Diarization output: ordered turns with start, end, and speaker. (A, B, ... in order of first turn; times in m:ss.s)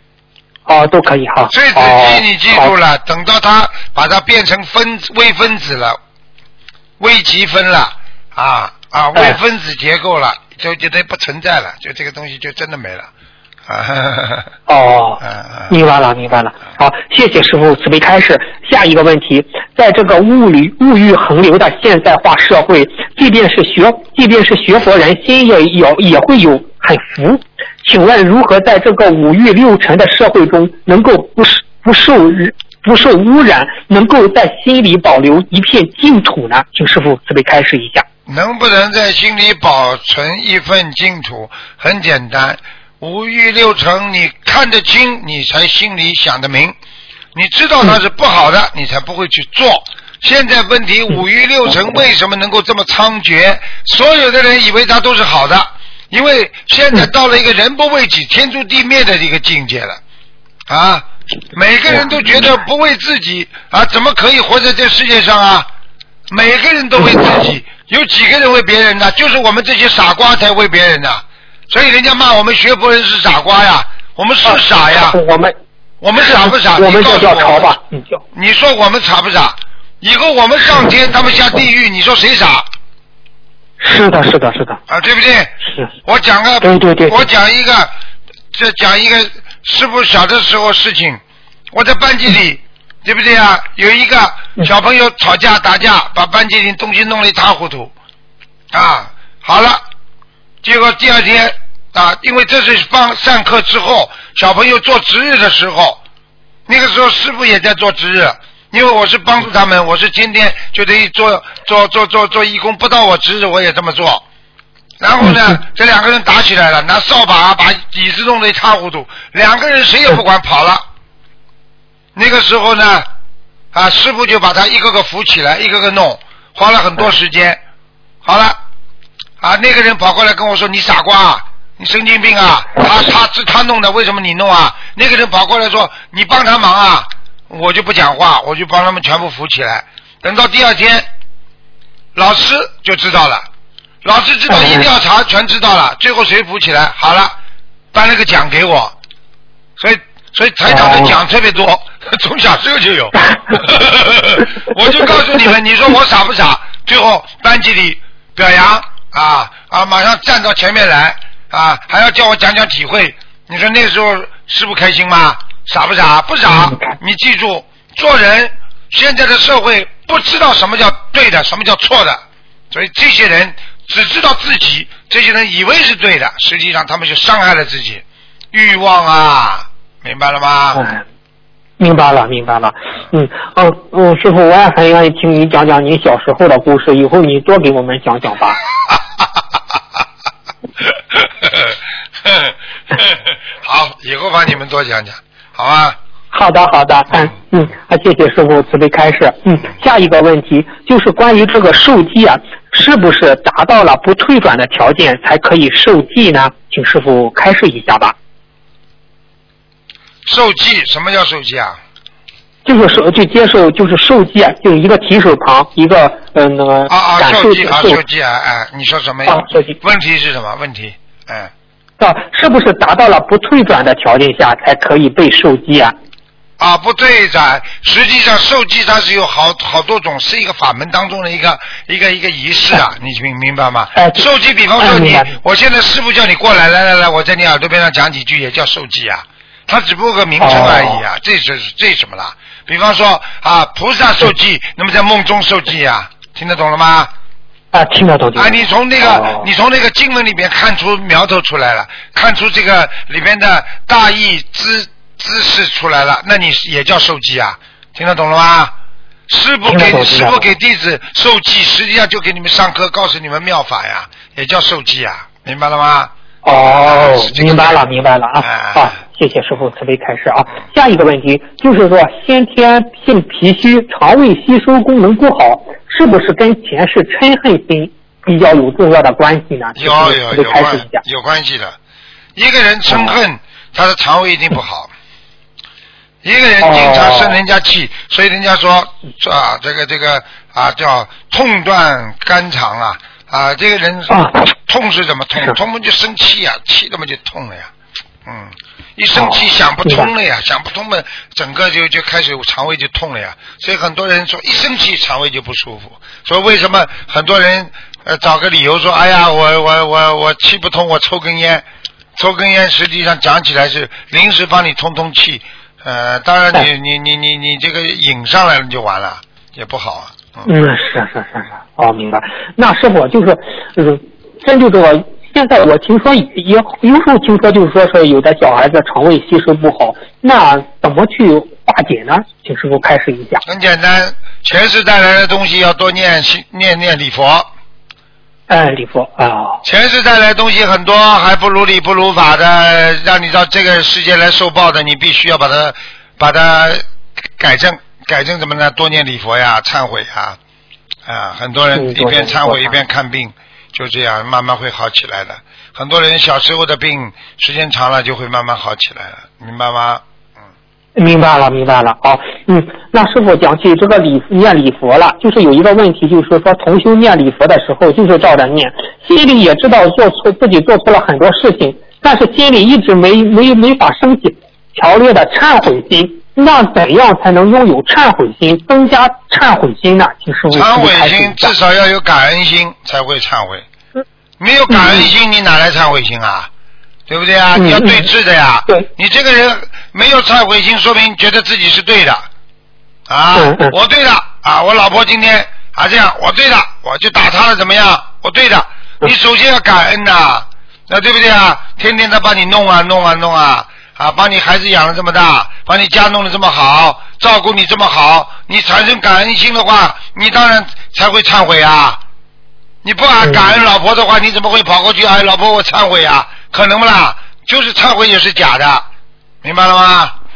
0:00.7-0:02.7 A
0:01.5-0:06.0 B
0:07.0-0:13.1 B
0:13.6-0:14.5 B
0:14.7-0:38.0 A
0:15.2-0:15.7 B
0:38.3-0:46.7 B
0:47.3-1:00.0 B
1:00.7-1:05.7 B
1:06.3-1:15.2 B
1:14.4-1:15.5 A
1:16.0-1:17.7 B
1:16.2-1:18.2 A
1:18.3-1:22.7 B
1:23.8-1:24.8 A
1:24.9-1:27.9 B
1:26.6-1:27.3 A
1:28.5-1:31.2 B
1:31.7-1:37.9 B
1:38.7-1:39.8 B
1:40.6-1:46.0 B
1:46.7-1:54.2 B
1:55.0-2:00.8 B
2:02.2-2:03.1 B
2:03.7-2:07.6 B
2:08.2-2:08.6 B
2:09.4-2:21.1 B
2:22.1-2:23.5 B
2:24.0-2:27.3 B
2:24.5-2:24.8 A
2:27.9-2:28.9 B
2:29.8-3:00.8 B
2:30.7-2:31.2 A
2:46.5-2:47.0 A
3:00.7-3:01.0 A
3:01.8-3:08.6 A
3:11.1-3:16.0 B
3:16.3-3:28.1 A
3:30.2-3:31.8 B
3:32.6-3:38.0 A
3:36.9-3:41.5 B
3:39.3-3:39.8 A
3:42.0-3:45.9 A
3:46.6-4:07.1 B
3:53.9-3:54.2 A
3:54.8-3:55.4 A
4:00.4-4:01.0 A
4:07.7-4:09.5 A
4:08.4-4:18.7 B
4:19.3-4:26.1 B
4:19.6-4:20.5 A
4:26.4-4:41.0 A
4:26.7-4:27.8 B
4:28.4-4:28.9 B
4:39.8-4:41.8 B
4:42.4-4:44.9 B
4:46.2-4:57.7 B
4:46.6-4:47.4 A
4:54.1-4:54.5 A
4:58.2-5:11.6 B
4:59.1-5:00.1 A
5:12.2-5:20.5 B
5:20.4-5:33.4 A
5:33.4-5:37.5 B
5:38.5-5:39.6 A
5:39.6-5:46.8 B
5:47.4-5:50.4 B
5:51.0-6:00.0 B
5:51.7-5:52.8 A
6:01.0-6:21.5 A
6:20.5-6:23.6 B
6:24.4-6:26.5 B
6:27.1-6:32.2 B
6:27.5-6:28.1 A
6:33.1-6:52.0 B
6:33.4-6:33.7 A
6:52.8-6:58.9 B
6:53.2-6:53.5 A
6:59.4-7:00.1 B